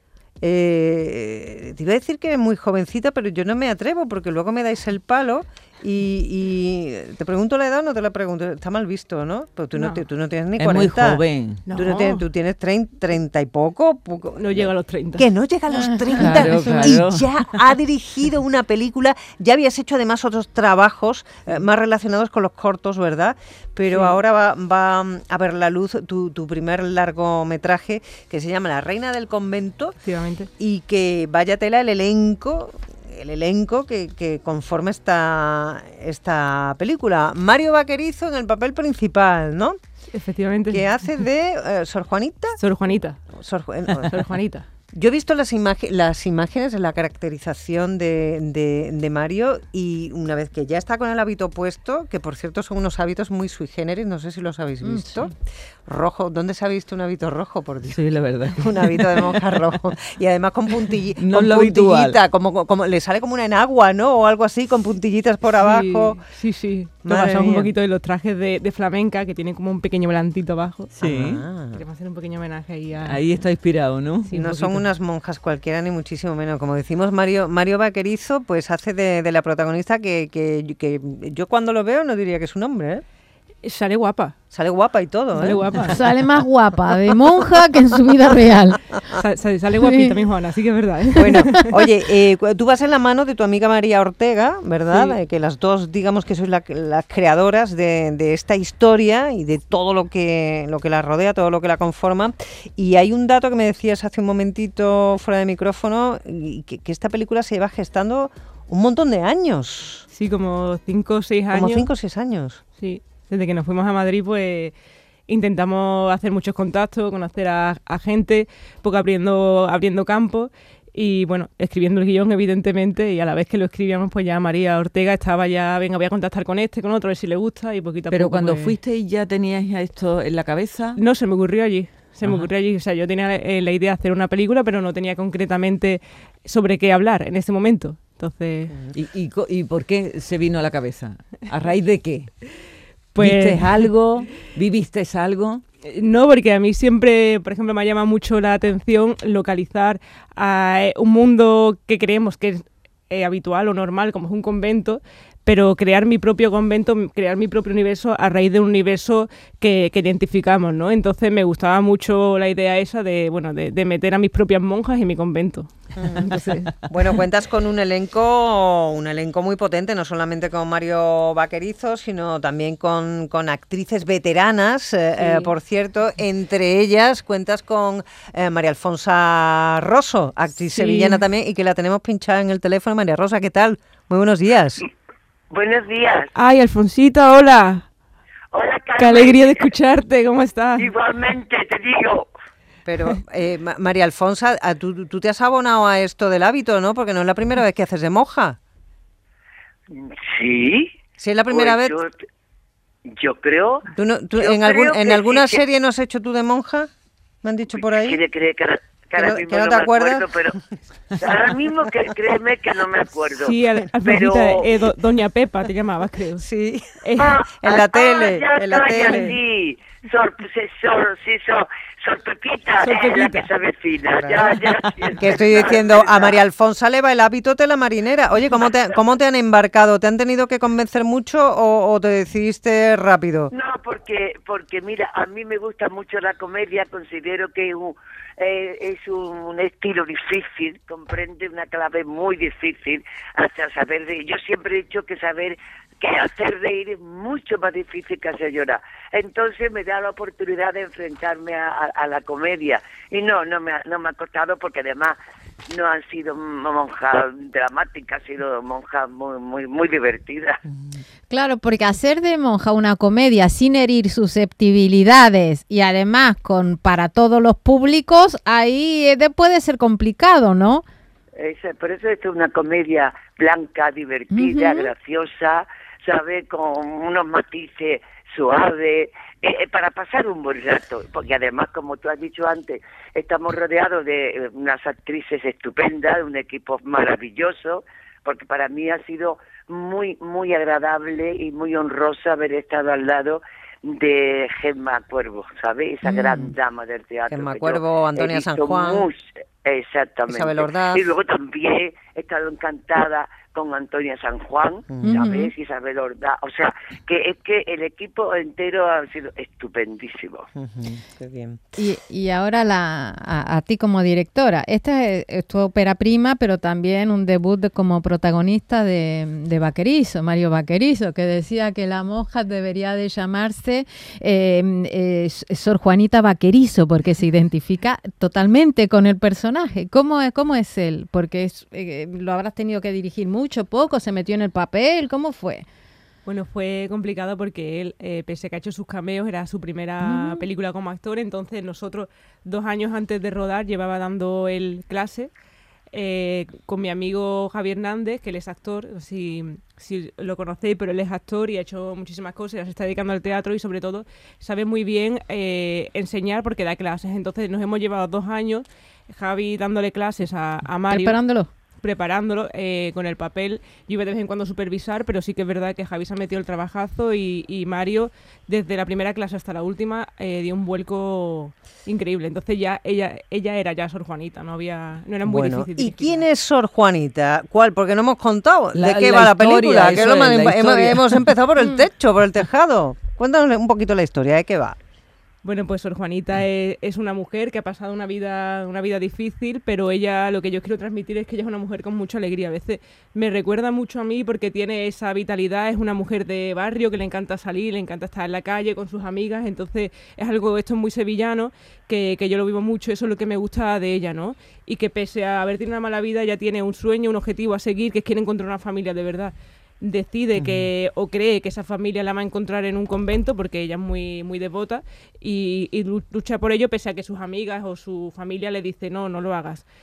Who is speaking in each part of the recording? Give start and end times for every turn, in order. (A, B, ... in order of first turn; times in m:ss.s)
0:00.4-0:11.2 A
0:09.7-0:10.0 B
0:10.6-0:11.6 C
0:11.6-0:12.2 B
0:11.7-0:30.0 A
0:14.4-0:15.3 B
0:15.7-0:16.8 D
0:16.2-0:17.3 C
0:23.9-0:24.2 B
0:30.0-0:30.5 B
0:30.6-0:39.8 A
0:40.1-0:40.9 B
0:40.7-0:42.6 A
0:42.6-0:43.3 B
0:43.3-0:44.1 A
0:44.1-0:44.6 B
0:44.9-0:55.3 A
0:54.8-0:55.2 D
0:55.8-0:58.0 A
0:57.9-0:59.4 C
0:58.6-1:06.2 A
1:01.2-1:02.2 C
1:05.6-1:10.9 B
1:07.0-1:07.7 A
1:10.9-1:11.4 C
1:11.0-1:11.8 A
1:11.7-1:13.2 B
1:13.0-1:14.3 C
1:14.2-1:14.8 B
1:14.3-1:23.0 A
1:23.6-1:24.3 B
1:24.5-1:25.8 A
1:25.4-1:26.0 B
1:25.8-1:29.0 D
1:29.1-1:31.9 B
1:29.8-1:30.2 D
1:31.2-1:50.0 A
1:34.9-1:35.2 B
1:50.1-1:51.9 B
1:51.5-1:52.6 A
1:52.8-1:54.7 B
1:55.3-2:08.8 B
2:08.1-2:11.0 C
2:11.0-2:18.7 B
2:18.9-2:22.3 C
2:23.1-2:23.9 B
2:23.2-2:25.6 C
2:25.8-2:46.7 B
2:46.0-3:04.8 A
2:55.2-2:55.5 B
3:00.7-3:01.2 B
3:05.5-3:06.3 E
3:06.4-3:07.8 B
3:08.5-3:09.7 E
3:09.0-3:10.9 B
3:10.8-3:12.3 E
3:12.8-3:18.6 A
3:19.9-3:21.0 E
3:21.2-3:21.9 A
3:21.5-3:22.2 E
3:23.0-3:25.6 E
3:24.0-3:26.9 A
3:27.4-3:28.2 A
3:27.7-3:30.6 E
3:29.2-3:30.4 A
3:31.1-3:34.7 E
3:33.3-3:36.4 B
3:36.4-3:39.3 A
3:37.0-3:37.4 B
3:37.4-3:46.4 E
3:38.9-3:39.4 B
3:42.8-3:43.5 B
3:44.2-3:44.6 A
3:45.1-3:53.5 A
3:53.5-4:15.2 E
4:15.7-4:20.6 E
4:21.3-4:30.8 D
4:31.3-5:10.5 E
4:34.3-4:34.9 D
4:56.0-4:56.4 D
4:57.3-4:59.1 A
5:00.3-5:01.0 A
5:04.9-5:05.3 A
5:05.0-5:05.5 D
5:10.6-5:11.6 A
5:11.8-5:35.6 D
5:36.2-5:45.3 B
5:40.0-5:40.4 D
5:45.9-6:01.2 B
6:00.9-6:01.5 D
6:01.8-6:16.2 B
6:15.2-6:24.8 A
6:18.7-6:21.3 C
6:21.6-6:21.8 D
6:25.4-6:59.6 B
6:50.4-6:50.7 A